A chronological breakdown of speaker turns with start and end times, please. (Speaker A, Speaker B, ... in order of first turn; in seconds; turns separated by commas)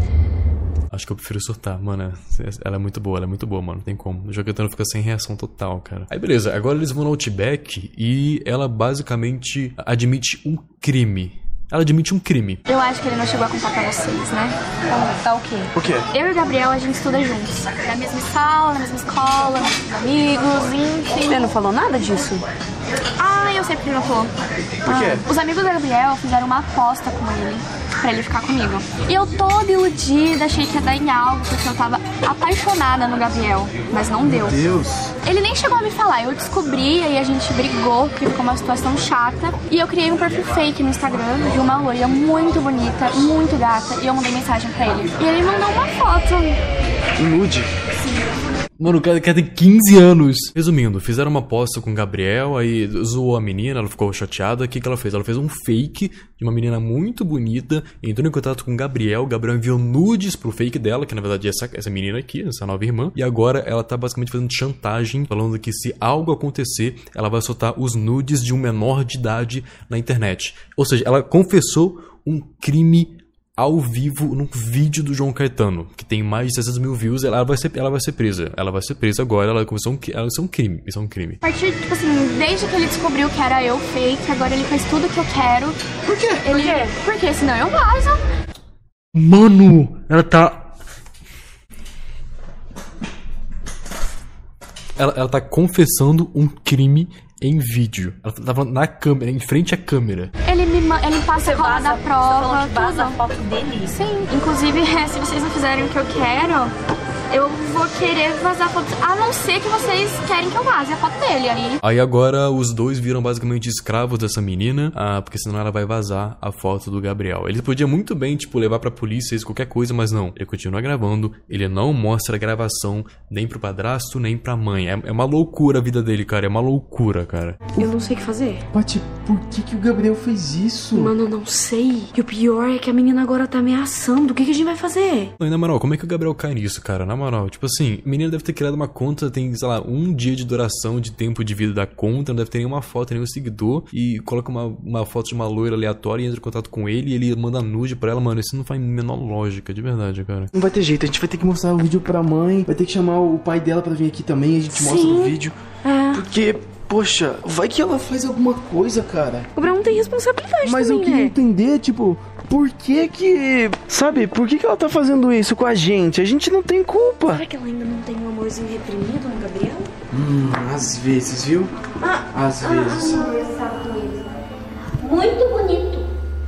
Speaker A: 0.9-12.6, Speaker B: 12.7-14.6, Speaker C: 14.9-15.7, Speaker D: 15.7-16.1, Speaker B: 16.1-19.9, Speaker C: 20.0-22.4, Speaker B: 23.2-24.3, Speaker D: 24.8-25.2, Speaker B: 24.9-34.6, Speaker D: 34.2-35.1, Speaker B: 35.2-46.6, Speaker D: 47.2-47.7, Speaker A: 48.8-81.4, Speaker B: 81.4-85.8, Speaker D: 86.0-86.5, Speaker B: 86.4-88.2, Speaker C: 86.5-86.9, Speaker A: 89.1-90.7, Speaker A: 95.0-100.3, Speaker B: 100.4-103.2, Speaker C: 101.3-104.2, Speaker B: 104.2-106.7, Speaker B: 107.3-111.8, Speaker A: 111.8-127.6, Speaker C: 127.8-128.6, Speaker D: 128.7-131.1, Speaker C: 130.9-135.3, Speaker A: 135.4-150.5, Speaker D: 150.5-155.6, Speaker C: 154.7-155.3, Speaker C: 155.8-156.2, Speaker D: 156.1-159.5, Speaker C: 159.6-161.3, Speaker D: 160.6-167.4, Speaker C: 167.3-169.9, Speaker D: 170.1-171.7, Speaker D: 172.3-173.3, Speaker E: 172.6-174.4, Speaker E: 175.0-176.1